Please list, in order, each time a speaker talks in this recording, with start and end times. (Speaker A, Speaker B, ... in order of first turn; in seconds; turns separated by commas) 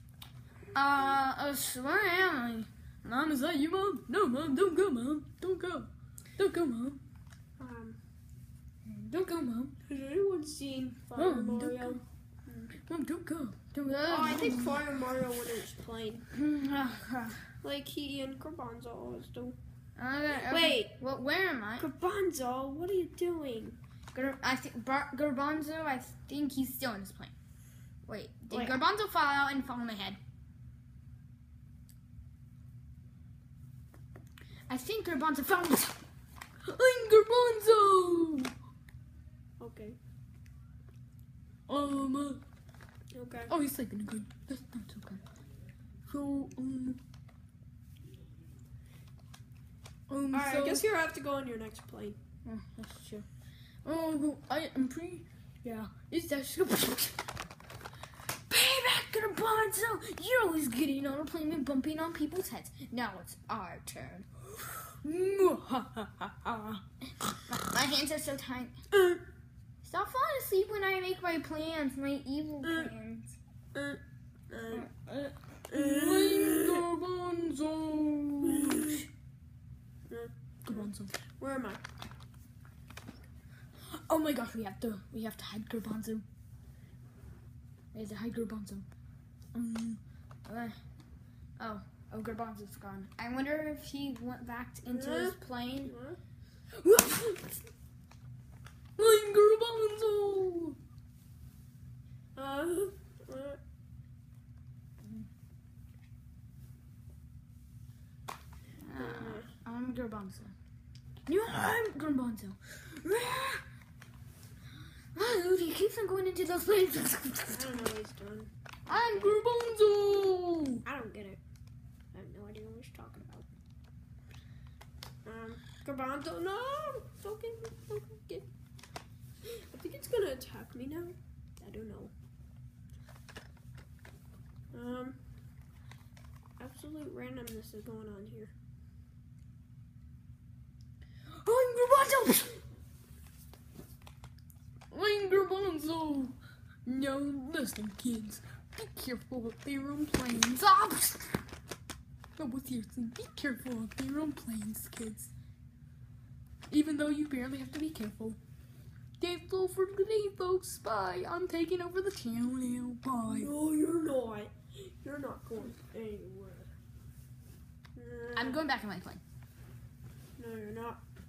Speaker A: 0.7-7.0, Speaker B: 7.6-8.0, Speaker A: 8.8-9.8, Speaker B: 9.9-12.7, Speaker A: 11.2-12.0, Speaker A: 12.8-14.8, Speaker B: 14.1-16.3, Speaker A: 16.3-17.4, Speaker B: 17.6-19.6, Speaker A: 19.9-21.9, Speaker B: 20.3-21.0, Speaker B: 21.8-23.8, Speaker A: 24.1-27.4, Speaker A: 28.1-30.2, Speaker B: 28.5-28.8, Speaker A: 34.7-36.0, Speaker A: 36.6-38.5, Speaker B: 39.6-40.0, Speaker A: 41.7-42.4, Speaker B: 43.1-43.5, Speaker A: 43.5-45.2, Speaker A: 46.1-47.0, Speaker A: 50.1-50.8, Speaker B: 50.3-52.2, Speaker A: 52.4-53.2, Speaker A: 53.8-57.2, Speaker A: 58.5-68.8, Speaker B: 68.9-69.2, Speaker A: 69.8-73.3, Speaker B: 72.6-72.9, Speaker B: 73.7-74.9, Speaker A: 74.7-79.0, Speaker B: 75.7-76.8, Speaker B: 78.5-79.0, Speaker B: 80.1-81.8, Speaker A: 80.6-81.1, Speaker A: 83.9-86.2, Speaker A: 87.9-88.9, Speaker A: 89.5-90.8, Speaker A: 91.6-95.9, Speaker B: 94.9-96.2, Speaker A: 96.8-97.6, Speaker A: 99.0-100.8, Speaker B: 102.4-103.6, Speaker A: 108.8-110.5, Speaker B: 108.9-109.5, Speaker A: 111.3-113.6, Speaker A: 115.1-117.8, Speaker B: 117.5-119.4, Speaker A: 118.9-120.8, Speaker B: 120.8-121.4, Speaker B: 122.1-123.5, Speaker B: 125.2-128.5, Speaker B: 129.4-132.1, Speaker B: 134.7-135.2, Speaker B: 136.6-138.5, Speaker A: 141.3-142.6, Speaker A: 144.9-151.4, Speaker A: 152.4-155.3, Speaker A: 156.7-158.4, Speaker A: 159.2-163.5, Speaker B: 163.3-166.7, Speaker B: 167.9-168.7, Speaker A: 168.4-169.2, Speaker B: 170.4-171.0